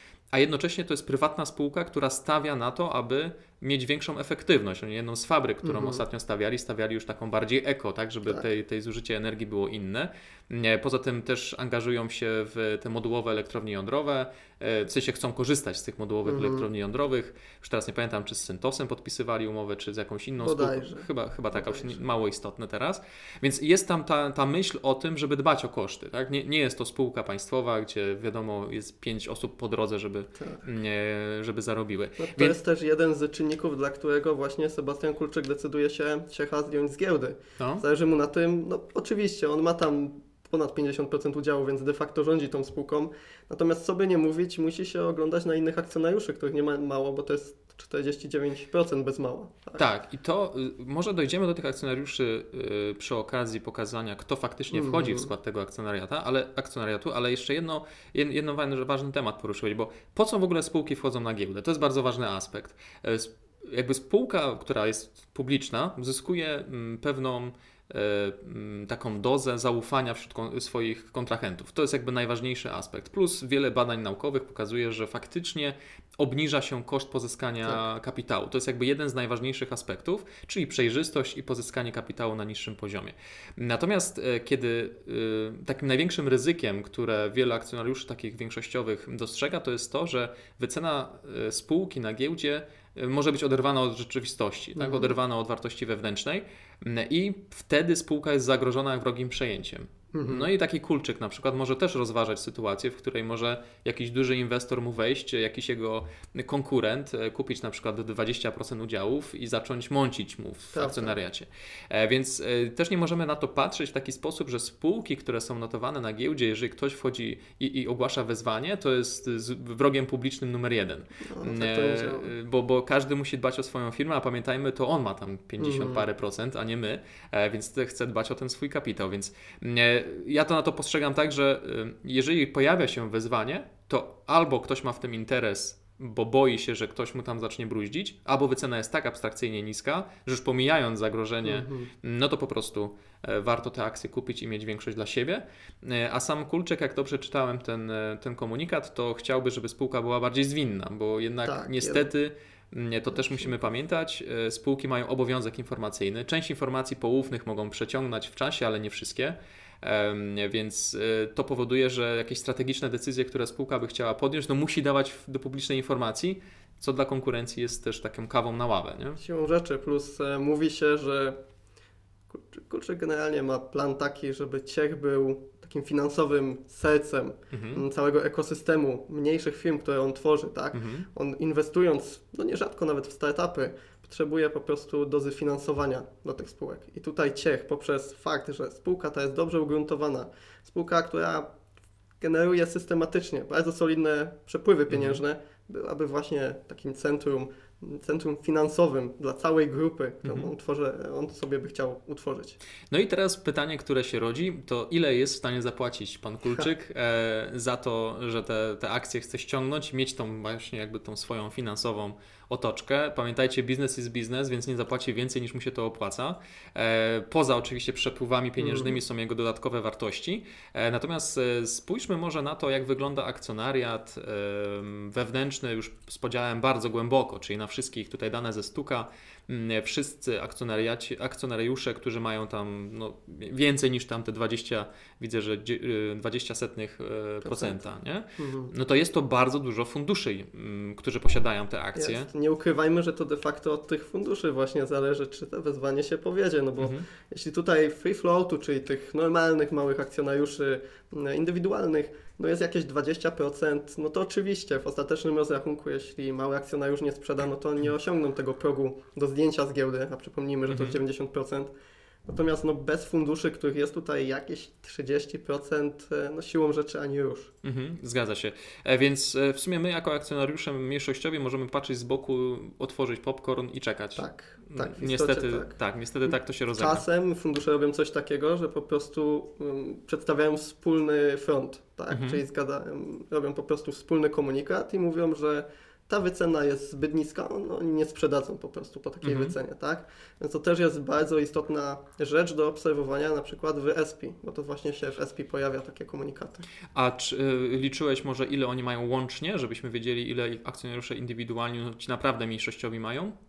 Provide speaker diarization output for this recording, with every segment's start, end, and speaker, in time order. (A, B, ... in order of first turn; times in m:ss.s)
0:00.3-0:32.6 A
0:05.6-0:06.0 B
0:16.2-0:16.7 B
0:20.4-0:22.0 B
0:32.2-0:49.8 B
0:37.6-0:37.8 A
0:49.8-2:49.2 A
0:54.7-0:55.3 B
1:34.8-1:35.1 B
1:40.1-1:40.5 B
1:50.7-1:51.2 B
2:01.2-2:02.3 B
2:05.6-2:06.0 B
2:21.4-2:21.9 B
2:31.4-2:32.1 B
2:33.1-2:33.5 B
2:49.2-2:51.4 B
2:52.3-3:11.5 B
2:57.5-2:57.8 A
3:00.7-3:01.1 A
3:12.2-3:22.6 B
3:14.9-3:15.2 A
3:22.9-4:02.3 A
3:38.6-3:39.0 B
3:57.4-3:58.7 B
4:01.9-4:21.7 B
4:06.8-4:07.0 A
4:20.7-4:21.0 A
4:22.2-4:27.5 B
4:27.6-4:37.0 A
4:34.2-4:35.7 B
4:36.3-4:56.6 B
4:42.1-4:42.4 A
4:49.2-4:49.6 A
4:56.9-5:03.3 A